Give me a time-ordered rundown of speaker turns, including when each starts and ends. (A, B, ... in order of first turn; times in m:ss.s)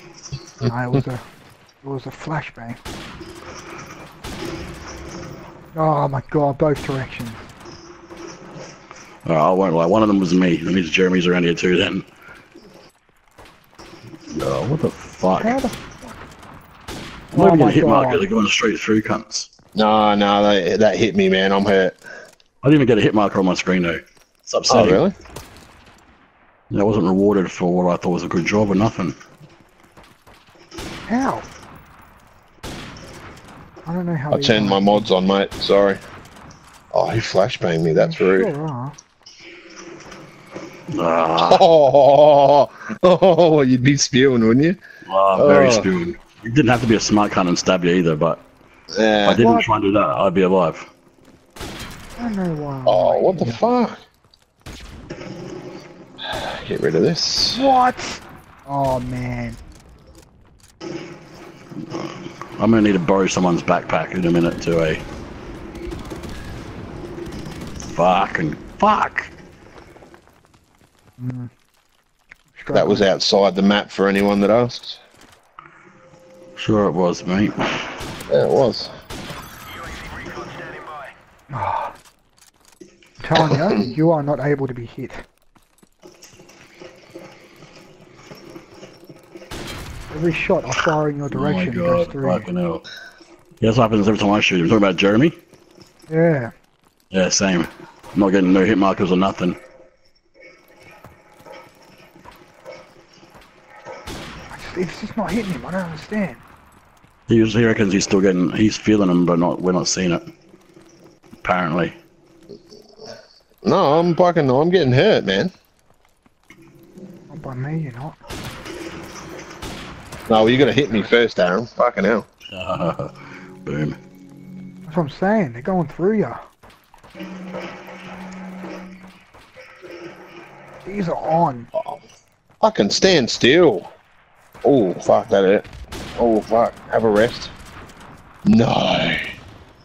0:00.6-0:01.2 A
0:01.8-0:02.8 A
0:05.7-0:07.5 A
0:09.2-0:12.1 B
0:14.3-0:15.6 B
0:15.4-0:16.3 A
0:17.3-0:19.5 B
0:17.3-0:18.2 A
0:19.8-0:22.0 C
0:22.6-0:25.0 B
0:24.7-0:25.1 C
0:26.7-0:29.2 B
0:31.1-0:31.5 A
0:33.8-0:35.1 A
0:34.3-0:36.0 C
0:36.9-0:38.5 C
0:37.9-0:39.0 A
0:40.9-0:41.6 B
0:41.4-0:44.8 C
0:45.1-0:48.4 B
0:45.3-0:45.9 C
0:48.9-0:49.4 C
0:49.2-0:50.9 B
0:49.3-0:49.7 A
0:52.2-0:53.6 A
0:52.8-0:54.0 C
0:56.3-0:57.7 C
0:57.5-0:59.6 A
1:01.8-1:05.0 B
1:07.9-1:09.3 B
1:11.2-1:11.5 A
1:12.5-1:13.1 A
1:12.7-1:15.0 C
1:16.6-1:17.9 B
1:18.3-1:18.9 C
1:21.5-1:22.0 A
1:23.2-1:25.2 A
1:23.3-1:23.9 C
1:30.1-1:32.5 A
1:31.3-1:32.8 B
1:33.6-1:35.4 B
1:36.1-1:36.5 A
1:37.1-1:39.6 B
1:44.5-1:46.4 A
1:47.3-1:50.2 B
1:51.4-1:52.0 B
1:53.6-1:55.5 C
1:57.3-1:58.2 A
2:00.3-2:02.3 C
2:00.8-2:01.1 A
2:02.5-2:03.1 B
2:03.6-2:04.0 B
2:04.9-2:06.4 A
2:10.8-2:11.7 A
2:12.6-2:13.9 C
2:14.6-2:17.5 C
2:18.4-2:19.2 C